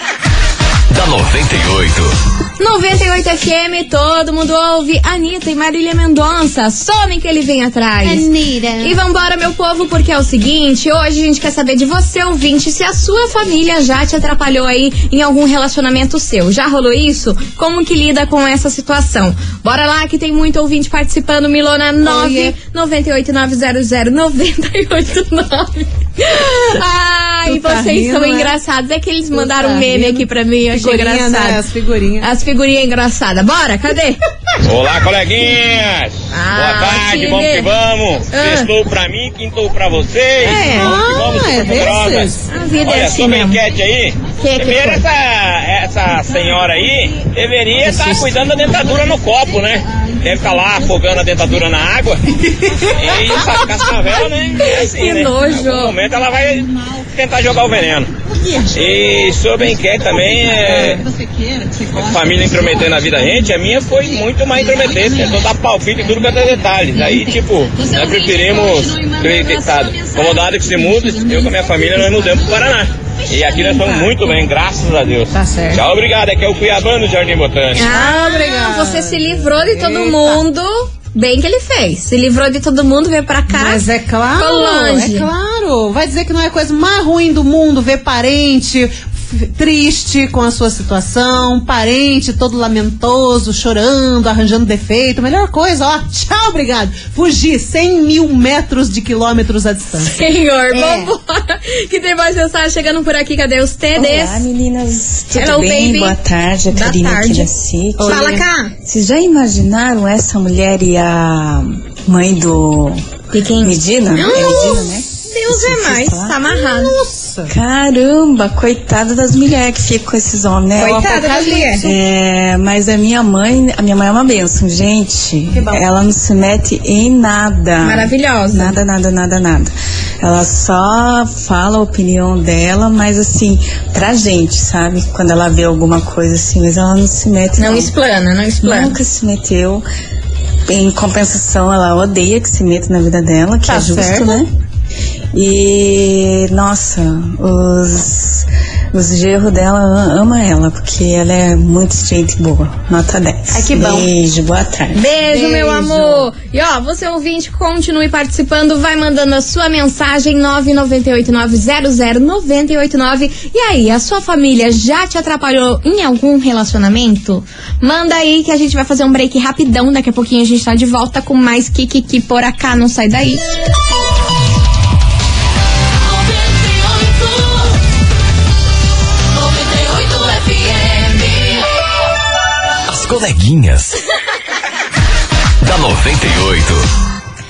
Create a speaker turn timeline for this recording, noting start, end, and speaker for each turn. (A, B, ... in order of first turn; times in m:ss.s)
0:00.9-0:02.1 A
0:02.6-0:08.3 B
0:08.0-0:09.0 C
0:08.8-0:31.6 B
0:22.0-0:22.6 C
0:27.4-0:28.5 C
0:29.3-0:32.3 C
0:32.2-0:34.2 B
0:34.6-0:42.3 D
0:36.3-0:37.7 B
0:38.3-0:38.7 B
0:40.4-0:41.0 B
0:40.4-0:42.4 C
0:42.5-0:43.6 B
0:42.8-0:52.2 D
0:44.4-0:45.0 B
0:47.8-0:48.9 C
0:52.5-0:53.8 C
0:52.9-0:58.1 D
0:54.2-0:55.9 B
0:58.2-1:01.8 C
0:58.7-1:01.0 D
1:01.9-1:17.9 D
1:02.5-1:02.9 C
1:04.8-1:05.2 C
1:07.7-1:12.7 B
1:13.3-1:14.4 B
1:15.3-1:15.8 C
1:17.7-1:23.8 B
1:17.9-1:20.4 C
1:23.5-1:40.1 C
1:24.4-1:25.3 B
1:40.0-1:44.4 B
1:40.7-1:41.1 C
1:43.9-1:53.0 E
1:45.3-1:46.2 B
1:46.7-1:48.7 B
1:48.0-1:48.4 C
1:53.3-1:56.9 B
1:53.6-1:56.4 E
1:54.3-1:55.0 C
1:56.4-1:57.5 C
1:57.5-2:01.1 E
2:00.8-2:02.0 C
2:00.8-2:01.8 B
2:01.7-2:17.9 E
2:05.5-2:05.8 C
2:07.8-2:08.7 B
2:17.6-2:19.0 B
2:18.6-2:19.8 E
2:20.7-2:24.5 E
2:23.6-2:24.4 C
2:25.3-2:35.0 E
2:33.5-2:34.1 C
2:34.9-2:53.4 B
2:35.2-2:36.3 C
2:56.8-2:57.2 B
2:59.6-3:01.3 B
3:02.9-3:04.0 A
3:05.6-3:06.8 A